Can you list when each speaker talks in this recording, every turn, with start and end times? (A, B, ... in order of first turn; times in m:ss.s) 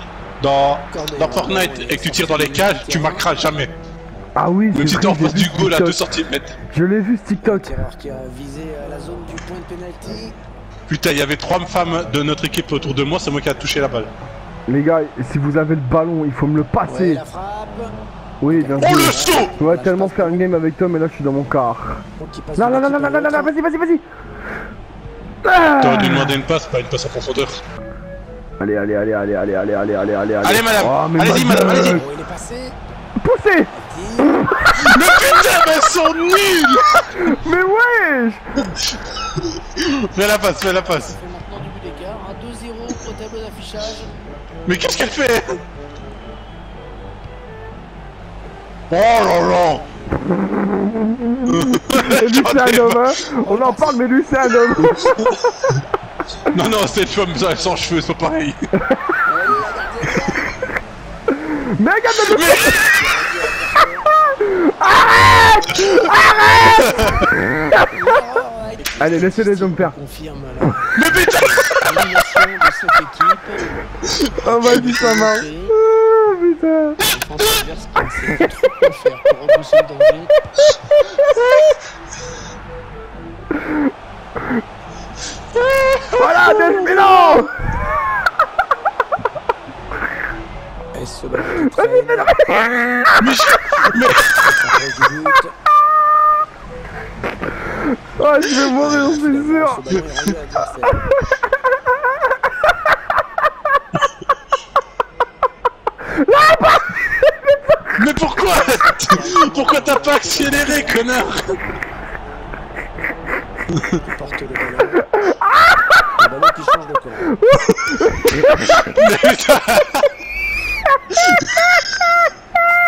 0:00.4-0:03.7 A
0:00.9-0:03.3 B
0:04.4-0:06.0 C
0:04.7-0:06.6 A
0:06.7-0:07.7 C
0:07.4-0:10.4 B
0:10.9-0:14.1 A
0:14.7-0:17.2 C
0:16.8-0:18.0 B
0:18.4-0:22.0 C
0:18.5-0:20.5 B
0:18.8-0:19.5 A
0:22.2-0:23.5 B
0:22.6-0:24.0 C
0:25.4-0:26.4 C
0:25.8-0:27.6 A
0:28.6-0:32.1 C
0:30.4-0:32.0 A
0:31.7-0:32.8 B
0:33.2-0:34.8 C
0:33.7-0:34.5 B
0:34.8-0:37.3 A
0:37.2-0:38.4 C
0:39.6-0:41.2 A
0:40.8-0:44.1 B
0:44.7-0:45.6 A
0:48.9-0:49.8 A
0:50.3-0:55.8 C
0:51.5-0:53.1 A
0:53.4-0:54.0 B
0:56.4-0:58.6 A
0:58.8-0:59.2 C
0:59.2-1:00.5 B
1:01.4-1:02.8 C
1:02.2-1:03.1 A
1:02.5-1:13.8 B
1:04.4-1:08.1 C
1:06.5-1:07.2 A
1:09.0-1:10.0 C
1:10.9-1:12.2 A
1:14.4-1:17.0 C
1:14.4-1:15.8 B
1:17.1-1:20.3 B
1:25.8-1:27.1 A
1:26.1-1:27.8 C
1:30.9-1:32.4 B
1:32.0-1:33.3 C
1:33.2-1:34.6 A
1:34.2-1:35.5 B
1:37.8-1:39.8 C
1:38.8-1:41.1 B
1:41.3-1:42.0 C
1:46.1-1:47.6 C
1:48.0-1:51.6 A
1:48.4-1:51.0 B
1:54.0-1:55.1 B
1:55.1-1:55.9 C
1:56.1-1:57.4 B
1:57.3-1:58.9 C
1:58.7-2:00.1 A
2:01.2-2:01.6 A